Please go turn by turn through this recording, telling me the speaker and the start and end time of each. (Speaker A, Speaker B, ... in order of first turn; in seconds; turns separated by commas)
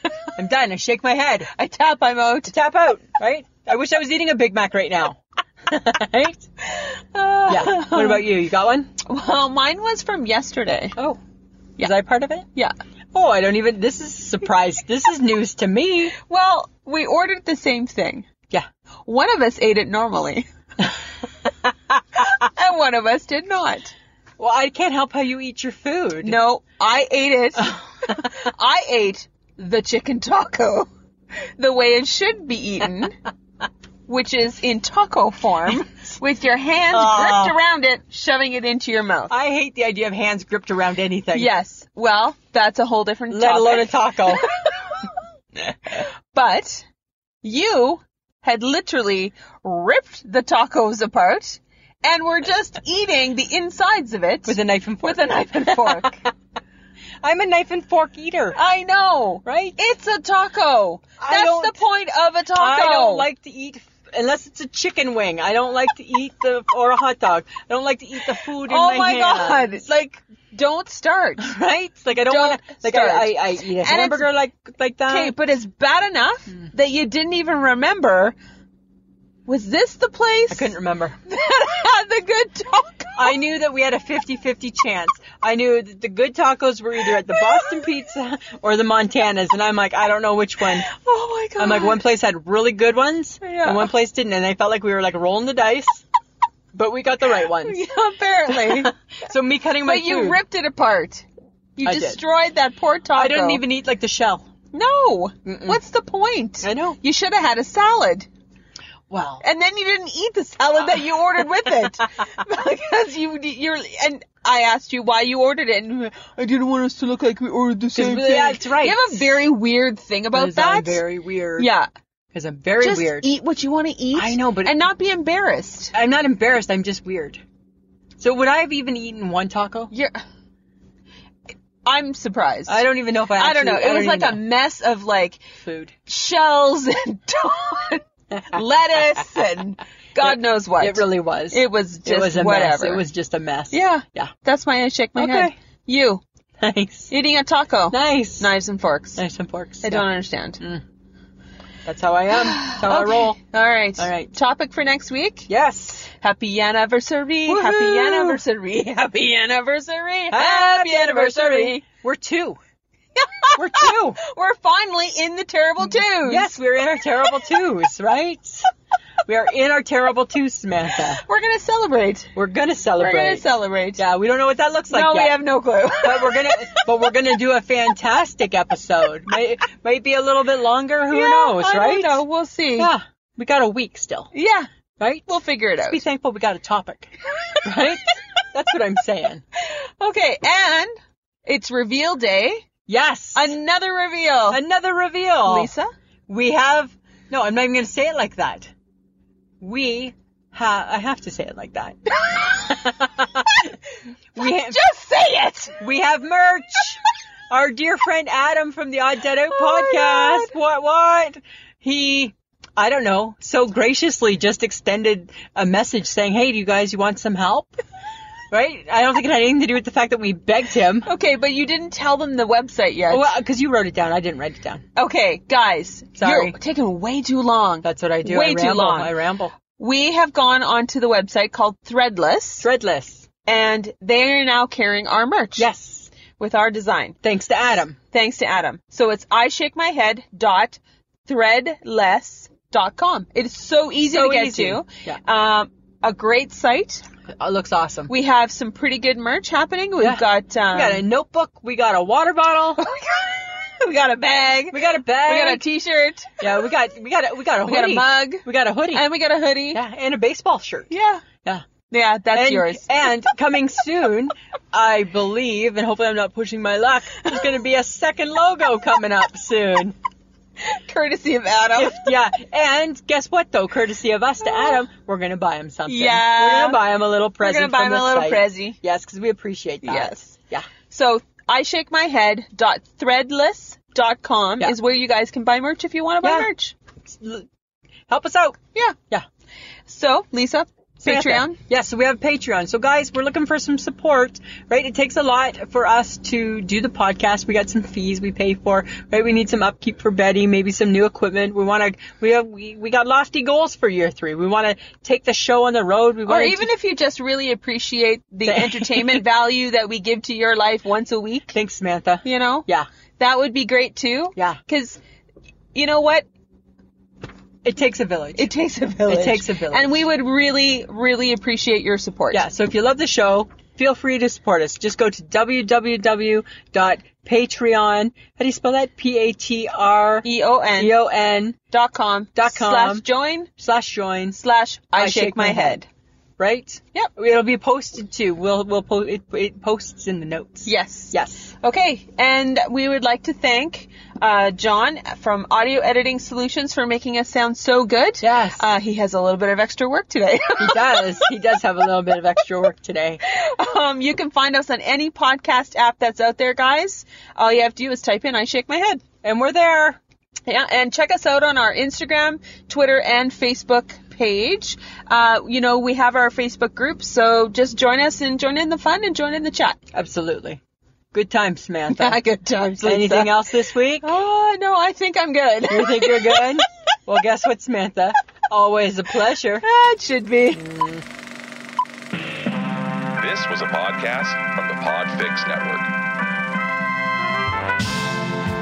Speaker A: 0.3-1.5, Speaker B: 1.5-2.5, Speaker A: 2.5-6.5, Speaker B: 6.7-8.3, Speaker A: 7.5-8.9, Speaker B: 9.0-10.9, Speaker A: 11.8-12.5, Speaker A: 13.1-16.1, Speaker B: 16.1-18.3, Speaker B: 19.1-20.5, Speaker B: 22.1-23.9, Speaker A: 24.4-26.4, Speaker B: 26.2-30.9, Speaker B: 31.6-33.2, Speaker B: 34.1-39.3, Speaker A: 36.9-37.6, Speaker A: 39.3-41.5, Speaker B: 41.3-46.9, Speaker A: 43.3-44.5, Speaker B: 47.4-56.2, Speaker A: 54.5-56.1, Speaker A: 57.2-58.6, Speaker B: 58.5-63.3, Speaker A: 59.4-59.8, Speaker A: 61.2-61.8, Speaker A: 62.5-69.9, Speaker B: 68.7-71.5, Speaker A: 71.4-75.3, Speaker B: 72.1-74.3, Speaker B: 75.1-78.3, Speaker B: 79.5-80.7, Speaker A: 80.5-81.2, Speaker B: 81.2-83.3, Speaker A: 83.2-90.9, Speaker B: 90.9-92.0, Speaker A: 91.6-96.0, Speaker B: 93.4-93.9, Speaker A: 96.7-97.8, Speaker B: 97.6-98.9, Speaker A: 98.5-100.4, Speaker B: 99.8-101.2, Speaker B: 101.8-103.6, Speaker A: 101.8-102.2, Speaker A: 103.1-104.5, Speaker B: 104.7-108.3, Speaker A: 105.5-105.8, Speaker A: 106.6-107.0, Speaker A: 109.1-109.4, Speaker B: 109.4-121.0, Speaker A: 117.9-119.2, Speaker A: 120.3-121.7, Speaker B: 121.6-121.9, Speaker A: 122.3-123.3, Speaker B: 122.8-125.9, Speaker A: 124.1-124.8, Speaker A: 125.9-127.4, Speaker A: 128.2-129.9, Speaker B: 129.9-130.2, Speaker B: 131.8-135.4, Speaker A: 132.7-134.4, Speaker A: 135.6-135.9, Speaker B: 136.0-143.0, Speaker A: 140.2-144.3, Speaker B: 143.7-146.2, Speaker A: 145.2-145.5, Speaker A: 146.6-147.1, Speaker B: 147.1-149.2, Speaker A: 147.9-148.5, Speaker A: 149.2-150.1, Speaker B: 149.8-150.6, Speaker A: 151.8-153.4, Speaker B: 152.3-155.5, Speaker A: 154.0-154.3, Speaker A: 155.5-156.1, Speaker B: 156.1-161.8, Speaker A: 157.4-158.4, Speaker A: 160.3-162.6, Speaker B: 163.2-166.6, Speaker A: 163.5-164.2, Speaker A: 165.8-168.7, Speaker A: 169.2-171.2, Speaker B: 171.2-172.3, Speaker A: 172.3-173.4, Speaker B: 173.0-174.0, Speaker A: 174.0-175.4, Speaker B: 174.9-176.7, Speaker A: 175.9-182.2, Speaker B: 181.1-182.9, Speaker A: 182.8-184.3, Speaker B: 184.3-184.7, Speaker A: 185.0-189.4, Speaker B: 185.3-186.0, Speaker B: 189.6-190.9, Speaker B: 191.4-192.7, Speaker A: 192.9-193.5, Speaker B: 193.3-194.6, Speaker A: 194.5-195.7, Speaker B: 195.4-195.9, Speaker A: 196.3-198.7, Speaker A: 199.6-203.7, Speaker B: 202.2-202.8, Speaker A: 204.3-204.8, Speaker B: 204.4-205.8, Speaker A: 205.8-217.8, Speaker B: 209.5-210.5, Speaker A: 218.5-221.1, Speaker B: 221.0-223.3, Speaker A: 223.1-224.8, Speaker B: 224.9-229.1, Speaker A: 226.2-226.6, Speaker A: 227.8-229.5, Speaker B: 229.7-232.7, Speaker A: 232.6-233.3, Speaker B: 233.4-235.7, Speaker A: 235.6-236.1, Speaker B: 236.4-237.2, Speaker A: 237.2-238.0, Speaker B: 238.1-247.1, Speaker A: 244.1-245.2, Speaker A: 247.2-248.1, Speaker B: 248.1-251.1, Speaker A: 250.0-252.8, Speaker B: 252.8-256.4, Speaker A: 254.7-255.6, Speaker A: 256.4-259.1, Speaker B: 257.6-259.8, Speaker A: 259.7-260.9, Speaker B: 260.9-261.2, Speaker B: 261.9-263.1, Speaker A: 262.3-269.9, Speaker B: 270.6-272.1, Speaker A: 271.7-280.7, Speaker B: 275.9-276.8, Speaker B: 277.4-278.8, Speaker B: 279.8-280.4, Speaker B: 280.9-286.7, Speaker A: 286.2-286.5, Speaker A: 287.1-287.5, Speaker A: 288.1-288.6, Speaker B: 289.9-291.6, Speaker A: 291.0-306.7, Speaker B: 306.2-311.5, Speaker A: 308.5-309.2, Speaker A: 311.5-312.9, Speaker B: 312.2-312.7, Speaker B: 313.2-315.0, Speaker B: 315.7-316.3, Speaker A: 317.6-318.5, Speaker B: 318.4-322.4, Speaker A: 319.1-320.0, Speaker A: 322.3-331.6, Speaker B: 330.2-331.0, Speaker B: 331.7-333.5, Speaker A: 332.4-333.0, Speaker A: 333.6-334.4, Speaker B: 334.3-335.9, Speaker A: 334.9-335.8, Speaker A: 336.4-341.5, Speaker B: 340.6-351.2, Speaker A: 348.2-348.7, Speaker A: 350.6-353.2, Speaker B: 353.2-359.0, Speaker A: 359.2-360.0, Speaker B: 360.4-369.8, Speaker A: 369.9-370.6, Speaker A: 371.1-372.2, Speaker B: 371.9-373.4, Speaker A: 372.8-374.1, Speaker B: 374.0-376.6, Speaker A: 375.7-379.6, Speaker B: 379.6-380.6, Speaker A: 380.5-381.0, Speaker C: 383.2-385.9